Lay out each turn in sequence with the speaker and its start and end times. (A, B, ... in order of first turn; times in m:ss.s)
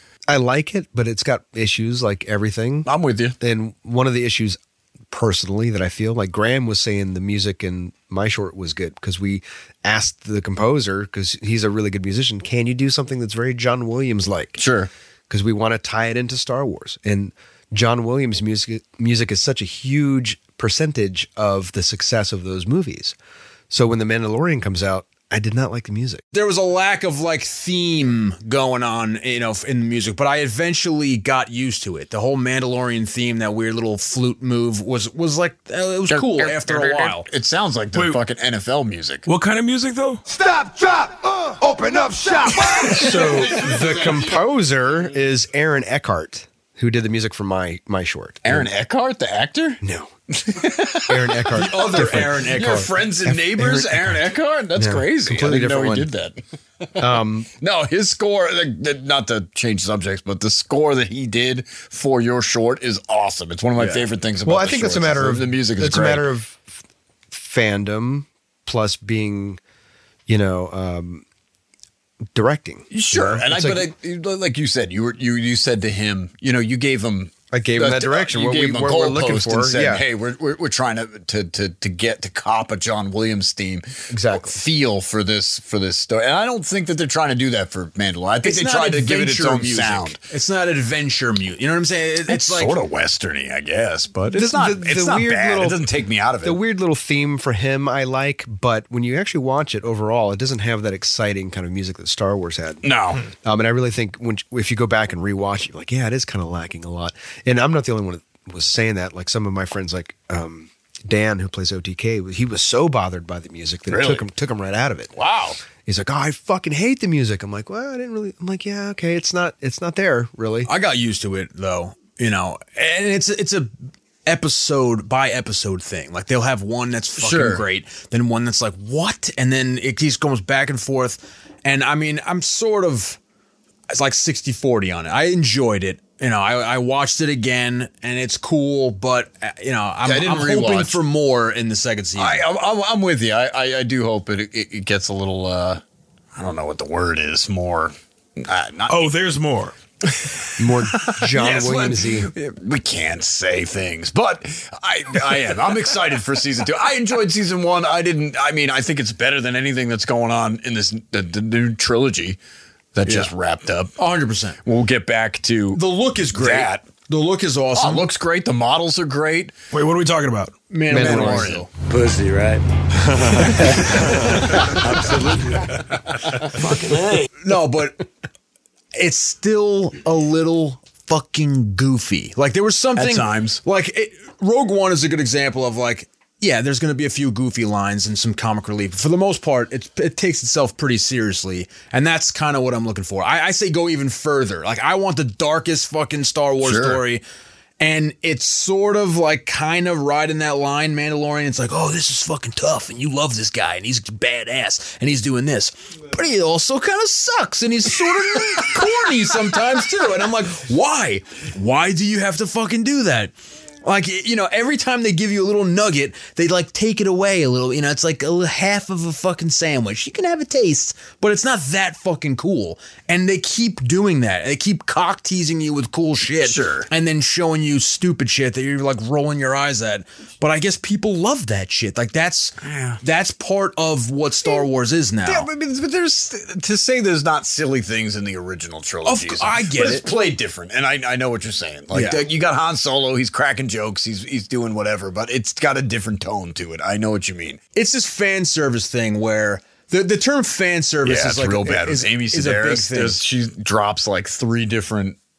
0:00.3-0:02.9 A
0:02.9-0:03.4 B
0:03.4-0:04.6 A
0:05.1-0:14.6 A
0:14.6-0:14.9 B
0:15.3-0:23.2 A
0:23.7-0:26.2 A
0:26.3-0:37.3 C
0:36.1-0:39.3 B
0:38.0-0:38.2 D
0:39.3-0:40.2 D
0:40.3-0:43.5 E
0:42.9-0:48.7 A
0:48.4-0:49.8 B
0:49.8-0:50.1 A
0:50.4-0:56.4 B
0:51.0-0:54.2 A
0:51.6-0:52.9 C
0:54.8-0:56.1 A
0:57.0-0:57.5 A
0:57.6-1:06.3 B
1:04.4-1:06.7 A
1:07.3-1:09.6 A
1:10.3-1:11.2 A
1:12.3-1:13.9 A
1:12.9-1:30.2 B
1:17.5-1:20.0 A
1:24.1-1:24.6 A
1:28.4-1:32.8 C
1:32.3-1:36.6 B
1:34.3-1:35.8 A
1:36.4-1:42.9 A
1:42.8-1:43.2 B
1:43.4-1:55.1 A
1:53.9-1:54.2 B
1:55.2-1:55.6 B
1:55.8-2:00.7 A
2:00.6-2:03.7 C
2:04.3-2:13.2 C
2:07.2-2:07.6 B
2:13.9-2:22.4 C
2:20.0-2:21.0 B
2:22.2-2:25.8 B
2:26.4-2:27.9 B
2:28.4-2:29.1 B
2:28.9-2:29.7 D
2:30.6-2:32.3 A
2:31.0-2:42.4 B
2:43.0-2:43.9 B
2:44.0-2:44.6 C
2:44.6-2:46.8 B
2:45.7-2:48.1 C
2:47.8-2:49.5 B
2:49.7-2:50.6 D
2:50.7-2:51.7 C
2:50.9-2:51.7 B
2:50.9-2:51.5 A
2:54.7-2:55.6 B
2:56.5-2:57.2 B
2:57.4-2:58.0 C
2:59.0-3:17.2 C
3:03.0-3:03.6 B
3:16.6-3:17.0 B
3:17.8-3:55.5 C
3:46.4-3:46.9 B
3:52.6-3:53.0 B
3:55.2-4:07.6 B
3:59.1-4:00.1 C
4:01.9-4:02.2 C
4:07.8-4:13.2 C
4:11.0-4:15.2 B